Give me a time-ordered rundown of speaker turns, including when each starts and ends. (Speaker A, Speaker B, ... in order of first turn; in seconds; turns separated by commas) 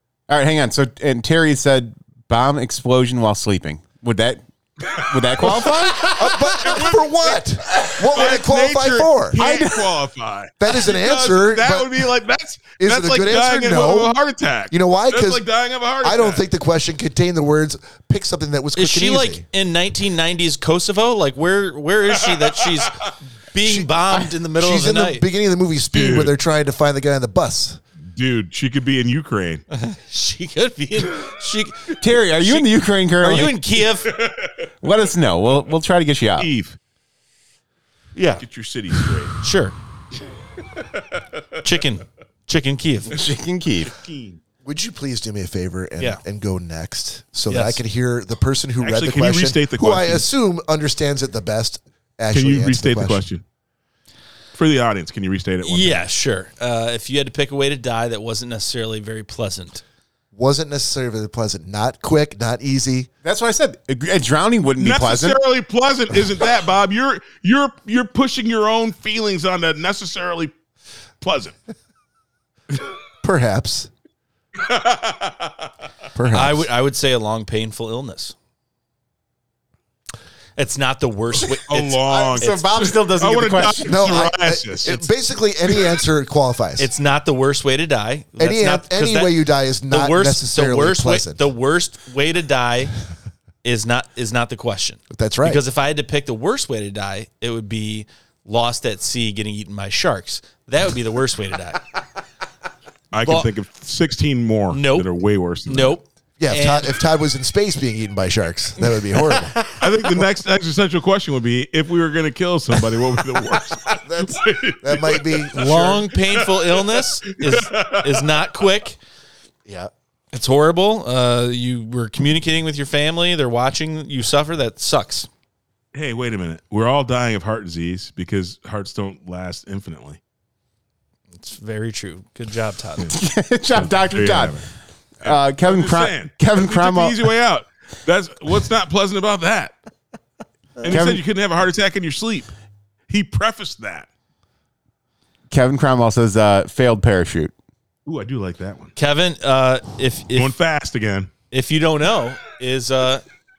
Speaker A: 0.3-6.8, Speaker B: 5.4-16.4, Speaker C: 6.0-9.4, Speaker A: 9.4-9.9, Speaker C: 10.6-12.1, Speaker C: 12.8-14.2, Speaker C: 14.7-15.4, Speaker C: 16.0-19.4, Speaker D: 18.8-25.2, Speaker B: 22.3-23.1, Speaker C: 23.6-24.0, Speaker C: 24.6-27.8, Speaker B: 25.9-26.3, Speaker B: 28.0-29.6, Speaker D: 29.7-32.7, Speaker A: 32.0-33.6, Speaker D: 33.2-34.1, Speaker B: 34.0-34.5, Speaker A: 34.8-36.5, Speaker B: 36.4-36.8, Speaker D: 38.1-38.4, Speaker B: 38.4-39.4, Speaker D: 39.4-39.7, Speaker B: 40.7-41.5, Speaker D: 41.6-43.1, Speaker A: 43.1-43.9, Speaker B: 43.9-44.4, Speaker C: 44.6-53.2, Speaker D: 47.5-47.8, Speaker B: 48.8-50.2, Speaker B: 52.3-53.4, Speaker B: 54.5-56.1, Speaker D: 55.6-59.8, Speaker C: 60.3-63.1, Speaker A: 63.2-65.4, Speaker B: 64.8-70.5, Speaker B: 71.2-71.5, Speaker C: 73.2-73.9, Speaker B: 74.6-75.5, Speaker C: 76.1-76.7, Speaker D: 76.3-78.3, Speaker D: 80.5-82.0, Speaker B: 81.7-85.0, Speaker A: 82.1-84.1, Speaker C: 83.8-86.9, Speaker D: 86.8-89.3, Speaker C: 88.4-91.5, Speaker D: 89.9-92.9, Speaker D: 93.6-101.8, Speaker C: 95.1-95.6, Speaker B: 103.1-106.0, Speaker D: 104.7-105.1, Speaker D: 105.7-107.0, Speaker C: 106.4-109.6, Speaker D: 109.1-109.8, Speaker B: 109.8-118.3, Speaker C: 113.9-115.8, Speaker D: 115.5-119.0, Speaker C: 119.6-119.9, Speaker D: 120.3-125.3, Speaker B: 125.9-130.2, Speaker D: 131.3-133.1, Speaker A: 133.1-134.6, Speaker B: 133.7-134.7, Speaker A: 135.2-137.3, Speaker B: 135.2-139.7, Speaker B: 140.8-142.5, Speaker A: 140.8-141.2, Speaker B: 143.1-144.1, Speaker A: 145.5-147.5, Speaker B: 148.1-148.9, Speaker D: 148.9-150.6, Speaker B: 150.3-151.3, Speaker D: 151.5-153.2